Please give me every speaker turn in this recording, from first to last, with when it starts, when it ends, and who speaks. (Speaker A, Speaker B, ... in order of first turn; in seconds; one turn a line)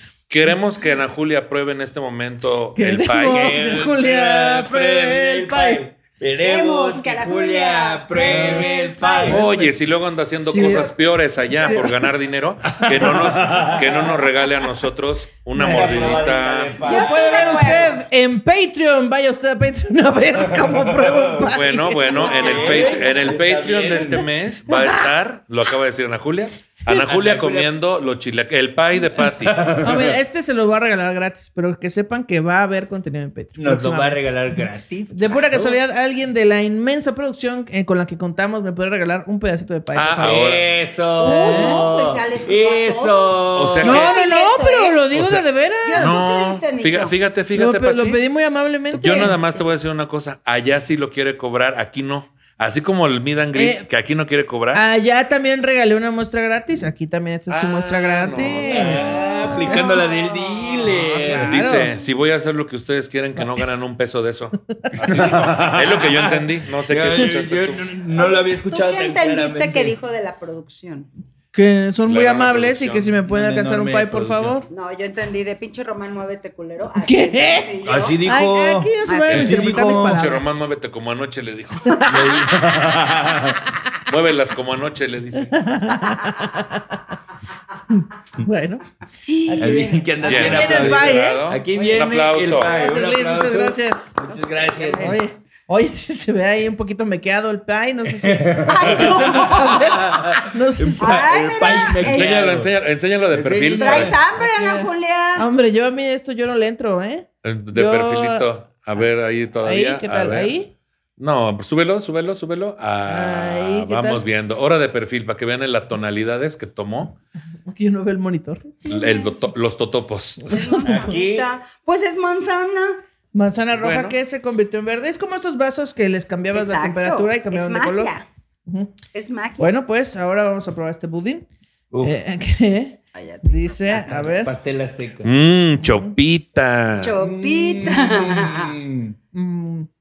Speaker A: 0.3-3.6
Speaker B: 2.8-5.8
Speaker C: 3.2-9.4
Speaker D: 6.4-9.4
Speaker B: 8.2-8.7
Speaker A: 9.3-16.8
Speaker B: 9.3-9.8
Speaker B: 10.4-10.9
Speaker B: 11.6-12.1
Speaker C: 12.7-14.2
Speaker B: 15.5-16.2
Speaker C: 15.6-17.9
Speaker B: 16.8-22.4
Speaker D: 16.8-18.0
Speaker C: 20.6-21.1
Speaker A: 21.4-29.7
Speaker C: 22.2-24.3
Speaker D: 22.2-23.1
Speaker C: 26.9-27.7
Speaker C: 29.4-30.1
Speaker B: 29.8-34.3
Speaker C: 33.6-35.8
Speaker B: 35.1-40.5
Speaker A: 39.9-40.6
Speaker C: 40.2-44.0
Speaker B: 41.2-41.8
Speaker D: 41.2-45.0
Speaker A: 43.5-44.1
Speaker B: 43.8-46.2
Speaker A: 45.1-48.2
Speaker D: 45.8-47.1
Speaker B: 47.5-49.4
Speaker D: 48.9-49.3
Speaker A: 49.0-54.8
Speaker B: 53.5-53.8
Speaker B: 54.7-60.0
Speaker A: 57.5-59.2
Speaker C: 58.6-61.5
Speaker D: 59.2-60.9
Speaker B: 61.1-61.9
Speaker A: 61.4-67.8
Speaker C: 65.0-69.9
Speaker D: 68.1-71.1
Speaker B: 71.5-74.7
Speaker A: 72.0-73.1
Speaker C: 73.2-74.5
Speaker D: 74.7-78.2
Speaker B: 77.0-80.7
Speaker C: 77.8-80.2
Speaker D: 79.0-79.5
Speaker A: 79.3-82.0
Speaker C: 82.1-83.6
Speaker A: 84.1-85.6
Speaker B: 85.5-87.0
Speaker B: 87.9-88.8
Speaker D: 89.2-90.4
Speaker B: 89.5-91.4
Speaker C: 89.6-95.2
Speaker A: 90.2-92.8
Speaker B: 92.6-94.2
Speaker D: 94.2-95.2
Speaker B: 95.0-101.8
Speaker C: 98.1-102.7
Speaker D: 98.6-99.8
Speaker D: 101.0-102.3
Speaker A: 102.0-104.2
Speaker C: 103.3-104.2
Speaker D: 103.8-105.5
Speaker B: 104.4-108.5
Speaker A: 107.4-110.5
Speaker B: 109.6-110.7
Speaker A: 111.2-117.2
Speaker B: 113.0-114.2
Speaker B: 117.7-118.8
Speaker D: 118.8-119.5
Speaker A: 118.9-120.6
Speaker B: 120.5-121.1
Speaker D: 120.5-123.0
Speaker C: 120.8-121.5
Speaker B: 123.3-128.1
Speaker A: 123.7-124.2
Speaker D: 126.5-128.2
Speaker B: 128.7-128.9
Speaker D: 129.1-129.7
Speaker B: 129.6-131.5
Speaker C: 131.9-132.2
Speaker B: 132.0-134.5
Speaker D: 133.1-134.0
Speaker C: 134.1-135.3
Speaker A: 135.2-137.1
Speaker B: 135.8-136.1
Speaker D: 137.0-138.7
Speaker C: 137.2-139.2
Speaker B: 139.3-139.9